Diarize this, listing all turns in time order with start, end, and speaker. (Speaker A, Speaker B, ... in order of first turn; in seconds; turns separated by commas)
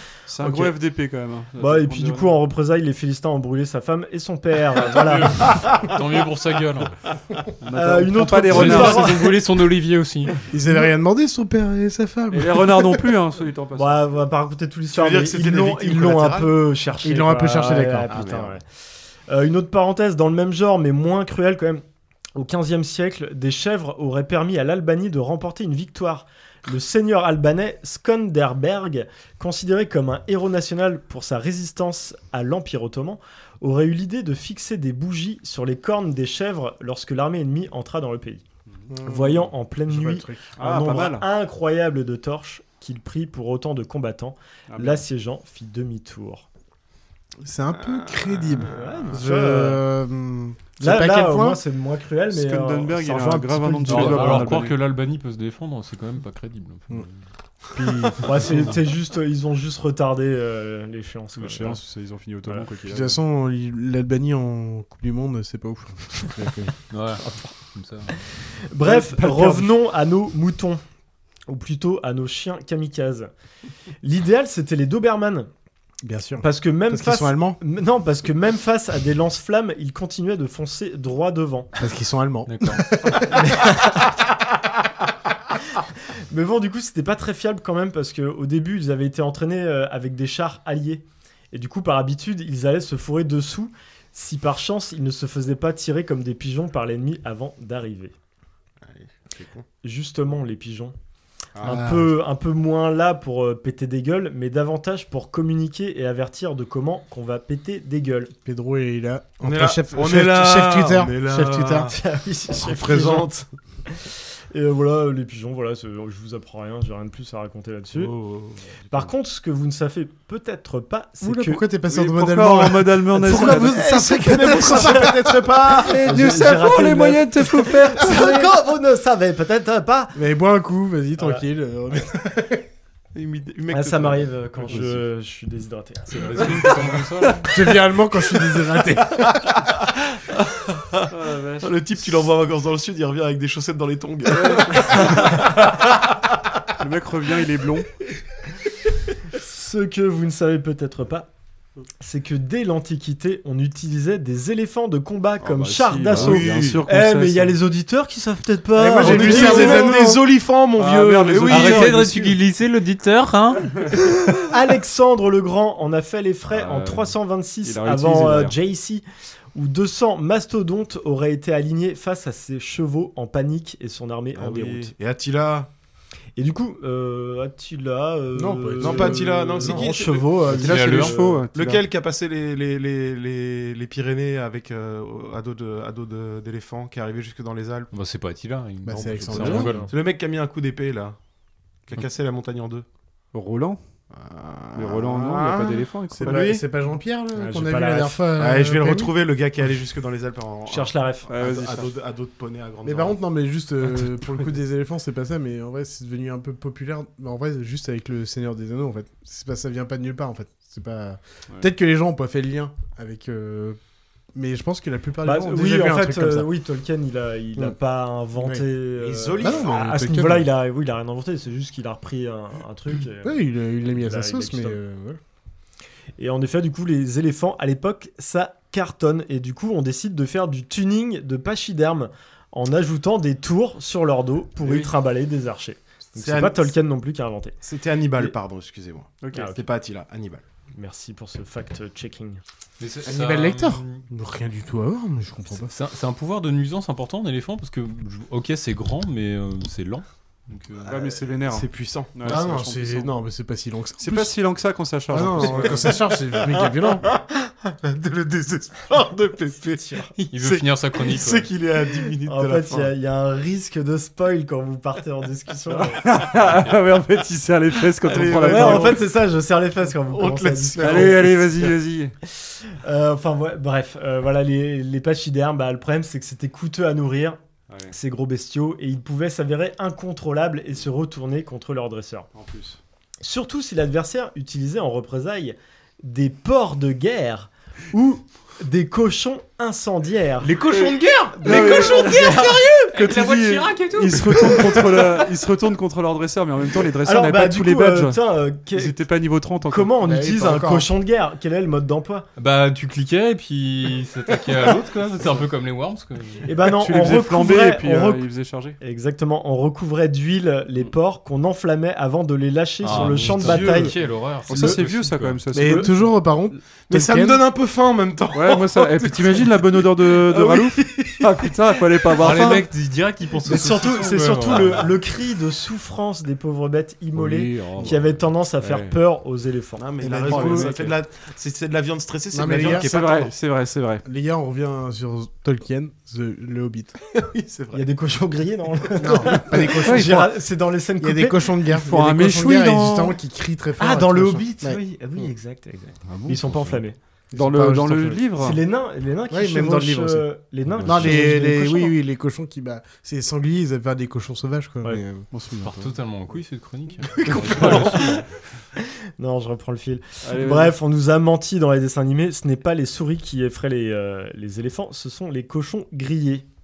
Speaker A: 0.3-2.4, Speaker B: 1.6-5.5, Speaker C: 4.7-6.9, Speaker A: 7.6-9.3, Speaker B: 7.7-9.4, Speaker C: 8.5-10.4, Speaker D: 10.5-13.1, Speaker A: 12.3-14.2, Speaker B: 13.8-18.6, Speaker E: 14.9-16.6, Speaker D: 17.0-18.3, Speaker E: 18.1-18.6, Speaker B: 19.3-21.8, Speaker B: 22.4-38.4, Speaker D: 38.9-40.5, Speaker B: 39.0-46.5, Speaker A: 40.6-41.3, Speaker A: 44.7-45.0, Speaker D: 47.4-51.6, Speaker E: 47.7-49.2, Speaker B: 48.7-49.9, Speaker B: 50.8-54.6, Speaker A: 52.3-54.8, Speaker C: 53.9-57.2, Speaker D: 57.7-58.7, Speaker B: 58.2-61.8, Speaker A: 61.4-63.2, Speaker D: 62.9-66.7, Speaker C: 66.9-68.2, Speaker B: 68.7-70.8, Speaker A: 68.8-69.7, Speaker B: 71.5-73.3, Speaker B: 74.0-75.5, Speaker D: 76.0-77.6, Speaker B: 76.4-81.7, Speaker D: 81.8-83.4, Speaker C: 82.5-83.2, Speaker B: 83.3-84.1, Speaker B: 86.3-98.1, Speaker E: 98.8-99.7, Speaker B: 99.8-101.0, Speaker D: 101.6-102.1, Speaker B: 101.6-108.3, Speaker D: 108.5-111.9, Speaker E: 109.4-112.0, Speaker B: 111.8-118.1, Speaker E: 112.6-113.4, Speaker E: 117.9-119.1, Speaker B: 118.9-121.6, Speaker D: 121.2-125.6, Speaker A: 121.9-123.8, Speaker E: 123.3-126.0, Speaker B: 124.2-125.1, Speaker A: 125.8-128.4, Speaker B: 125.9-130.2, Speaker D: 130.2-132.7, Speaker B: 131.2-131.4, Speaker E: 133.2-135.0, Speaker B: 133.7-136.8, Speaker C: 136.1-137.5, Speaker D: 137.5-139.5, Speaker E: 139.2-141.1, Speaker A: 141.1-141.8, Speaker E: 141.6-145.7, Speaker A: 144.4-145.3, Speaker A: 146.8-147.9, Speaker B: 149.3-151.3, Speaker B: 152.0-160.0, Speaker A: 155.4-157.6, Speaker E: 156.1-156.8, Speaker D: 158.8-160.2, Speaker E: 158.8-162.0, Speaker A: 160.8-162.4, Speaker C: 161.5-163.9, Speaker B: 164.3-169.0, Speaker A: 166.5-168.6, Speaker B: 169.6-174.9, Speaker E: 174.3-175.7, Speaker B: 176.4-181.5, Speaker D: 178.3-180.8, Speaker E: 178.8-180.5, Speaker A: 180.5-181.8, Speaker C: 180.6-181.2, Speaker E: 181.5-187.9, Speaker C: 187.9-189.9, Speaker D: 188.8-189.8, Speaker E: 189.3-191.2, Speaker B: 189.6-189.9, Speaker E: 191.9-192.9, Speaker A: 193.3-193.8, Speaker E: 194.1-196.6, Speaker A: 194.7-196.5, Speaker D: 196.1-199.1, Speaker B: 197.3-198.2, Speaker E: 198.4-203.2, Speaker B: 200.7-201.3, Speaker A: 201.3-201.9, Speaker D: 202.8-213.8, Speaker D: 214.3-216.5, Speaker B: 215.2-224.8, Speaker D: 218.4-218.7, Speaker E: 219.0-219.8, Speaker D: 219.4-220.5, Speaker D: 223.2-225.2, Speaker B: 226.2-237.6, Speaker E: 234.6-234.9, Speaker E: 236.2-236.7, Speaker E: 237.6-240.4, Speaker A: 239.2-239.5, Speaker B: 239.3-239.6, Speaker B: 240.8-242.4, Speaker C: 242.8-244.0, Speaker D: 243.1-245.7, Speaker C: 245.5-250.9, Speaker E: 250.8-252.7, Speaker A: 250.9-253.1, Speaker D: 252.2-254.3, Speaker A: 254.0-256.0, Speaker D: 255.1-257.1, Speaker E: 255.4-262.9, Speaker B: 259.8-260.1, Speaker C: 260.3-261.5, Speaker B: 262.2-266.1, Speaker A: 265.7-269.0, Speaker E: 267.9-269.1, Speaker B: 268.4-271.7, Speaker E: 270.1-271.7, Speaker A: 270.8-272.1, Speaker B: 272.4-282.3, Speaker A: 277.7-277.9, Speaker A: 282.3-282.8, Speaker B: 283.2-290.6, Speaker E: 290.4-292.0, Speaker C: 290.7-294.4, Speaker B: 291.4-292.7, Speaker A: 291.4-298.2, Speaker B: 297.0-299.0, Speaker A: 298.7-300.0, Speaker B: 299.6-302.3, Speaker D: 300.0-300.9, Speaker C: 302.4-306.5, Speaker B: 306.4-308.3, Speaker A: 306.6-308.8, Speaker B: 308.8-313.9, Speaker C: 312.8-315.4, Speaker E: 313.3-313.8, Speaker D: 313.5-313.8, Speaker A: 314.5-316.1, Speaker D: 315.5-317.4, Speaker E: 316.9-321.6, Speaker A: 318.3-322.7, Speaker C: 322.2-324.9, Speaker B: 323.4-330.8, Speaker A: 327.1-329.0, Speaker E: 329.8-333.3, Speaker D: 330.0-330.8, Speaker A: 330.2-330.9, Speaker D: 332.3-332.9, Speaker A: 332.7-334.0, Speaker D: 334.1-336.9, Speaker E: 337.1-337.9, Speaker B: 337.7-341.5, Speaker D: 339.0-340.3, Speaker A: 339.8-340.3, Speaker D: 341.0-344.8, Speaker A: 341.7-343.2, Speaker B: 343.8-347.0, Speaker A: 346.1-346.8, Speaker D: 347.3-348.3, Speaker A: 347.3-348.6, Speaker B: 348.4-352.0, Speaker D: 349.3-350.3, Speaker A: 350.7-351.3, Speaker D: 350.9-355.3, Speaker A: 355.3-355.9, Speaker C: 355.6-358.3, Speaker E: 357.1-358.1, Speaker A: 357.4-358.1, Speaker B: 359.2-366.4, Speaker A: 360.2-360.8